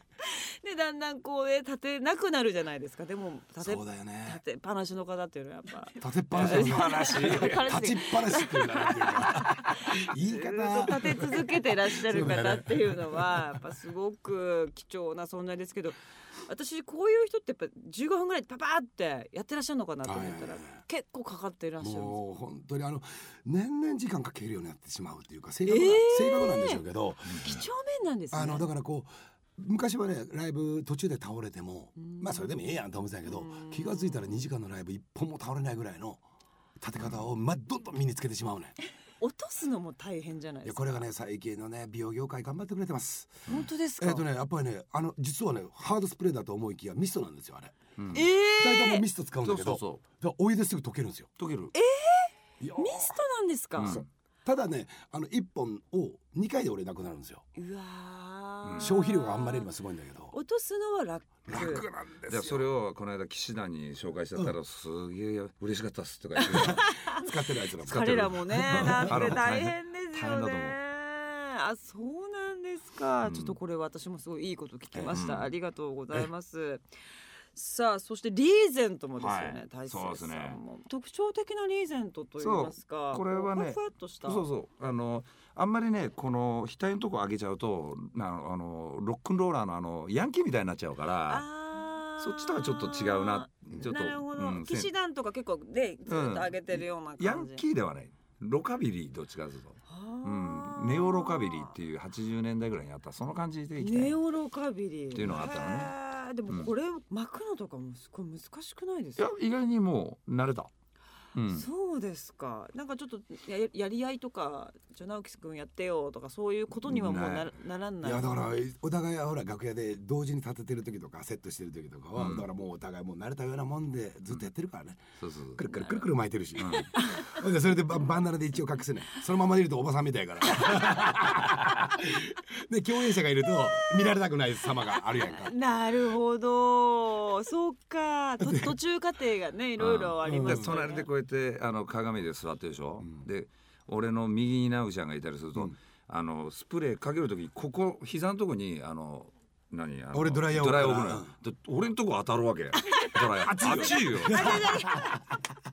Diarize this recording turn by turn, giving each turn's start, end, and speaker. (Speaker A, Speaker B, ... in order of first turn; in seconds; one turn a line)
Speaker A: 0.2-22.2
Speaker B: 3.6-4.4
Speaker B: 6.0-13.5
Speaker C: 6.3-7.7
Speaker B: 20.0-20.8
Speaker B: 21.8-27.6
Speaker A: 25.6-28.7
Speaker B: 28.3-36.2
Speaker A: 32.0-32.7
Speaker A: 33.2-34.5
Speaker B: 36.8-38.7
Speaker A: 39.2-41.0
Speaker B: 40.6-47.8
Speaker A: 43.5-44.2
Speaker C: 48.0-48.3
Speaker A: 48.1-49.0
Speaker B: 48.5-51.3
Speaker C: 49.4-50.0
Speaker C: 51.4-51.7
Speaker A: 51.7-54.0
Speaker B: 52.6-53.2
Speaker C: 53.8-54.0
Speaker B: 53.8-57.4
Speaker A: 57.5-59.7
Speaker C: 58.6-59.0
Speaker B: 58.8-60.3
Speaker A: 60.3-61.9
Speaker B: 61.5-62.7
Speaker C: 62.3-66.9
Speaker B: 66.5-69.4
Speaker A: 66.8-67.2
Speaker A: 67.8-76.8
Speaker C: 67.8-70.8
Speaker C: 73.2-73.5
Speaker C: 74.9-75.5
Speaker A: 77.5-84.5
Speaker C: 79.2-80.6
Speaker C: 82.4-91.5
Speaker A: 91.3-97.6
Speaker C: 92.2-94.9
Speaker C: 96.1-104.2
Speaker A: 99.9-101.7
Speaker A: 103.8-109.2
Speaker C: 105.1-105.9
Speaker C: 109.2-110.7
Speaker C: 111.3-111.7
Speaker A: 111.5-118.4
Speaker C: 116.9-117.5
Speaker B: 118.0-135.5
Speaker C: 122.2-122.5
Speaker C: 125.2-125.7
Speaker C: 126.6-126.9
Speaker A: 126.9-127.4
Speaker A: 130.5-131.1
Speaker A: 134.9-141.1
Speaker B: 138.4-138.8
Speaker C: 139.8-154.7
Speaker B: 140.2-140.8
Speaker B: 150.1-151.3
Speaker A: 152.9-155.2
Speaker B: 153.3-155.2